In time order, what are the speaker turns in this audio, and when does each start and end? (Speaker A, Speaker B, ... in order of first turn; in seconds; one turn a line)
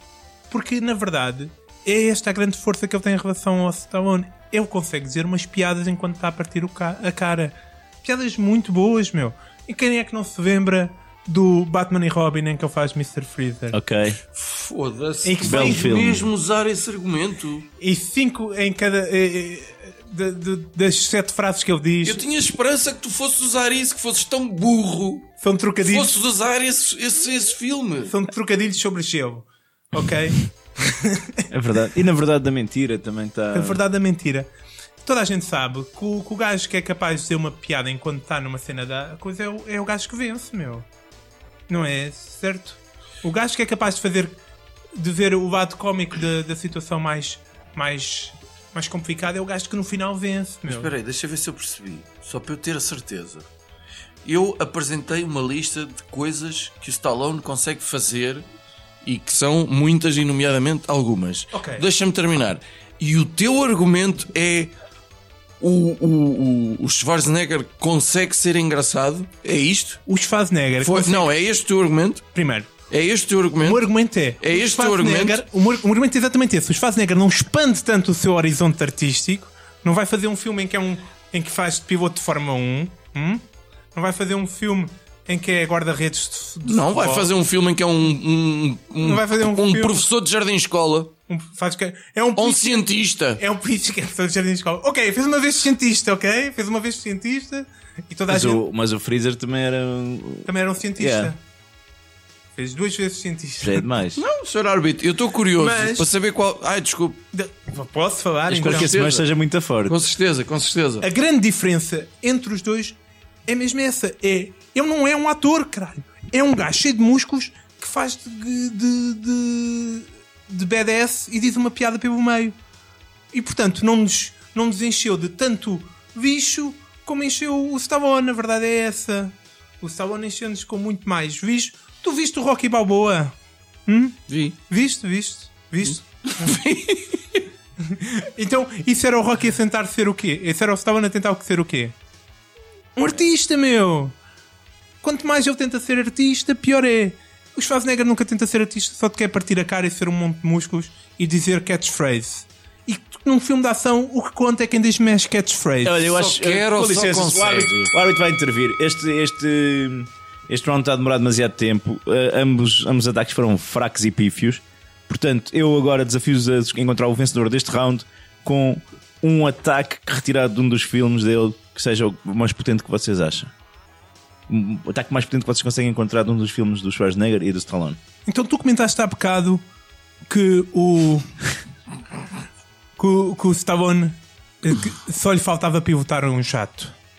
Speaker A: 0.5-13.8
Speaker B: 13.7-14.2
Speaker C: 14.3-17.7
Speaker A: 15.2-15.9
Speaker B: 15.4-16.3
Speaker A: 17.8-22.2
Speaker C: 22.0-28.1
Speaker A: 25.4-26.1
Speaker A: 28.1-31.4
Speaker B: 31.5-33.8
Speaker A: 33.5-34.5
Speaker A: 35.0-40.9
Speaker A: 41.7-44.4
Speaker A: 45.0-50.9
Speaker C: 50.6-53.5
Speaker C: 54.2-58.4
Speaker C: 59.0-64.7
Speaker A: 61.5-61.8
Speaker C: 65.6-70.0
Speaker A: 70.1-71.3
Speaker C: 70.8-72.2
Speaker A: 72.3-72.7
Speaker C: 72.9-73.9
Speaker A: 73.6-83.4
Speaker C: 74.4-75.4
Speaker A: 83.9-87.3
Speaker C: 86.6-91.1
Speaker A: 89.0-90.0
Speaker A: 91.3-98.6
Speaker C: 92.4-93.4
Speaker B: 98.3-101.3
Speaker A: 100.5-101.4
Speaker A: 102.5-103.9
Speaker B: 103.6-104.2
Speaker C: 104.2-107.2
Speaker A: 105.6-106.1
Speaker A: 107.3-109.0
Speaker C: 108.5-109.3
Speaker B: 108.5-110.0
Speaker C: 109.8-111.0
Speaker A: 111.0-122.5
Speaker A: 123.3-136.6
Speaker C: 134.3-134.6
Speaker C: 135.8-137.4
Speaker A: 137.8-141.9
Speaker A: 142.9-144.2
Speaker A: 145.0-156.1
Speaker B: 155.8-173.5
Speaker C: 156.1-157.9
Speaker B: 174.5-178.0
Speaker A: 178.3-179.6
Speaker A: 180.2-181.3
Speaker A: 183.0-186.9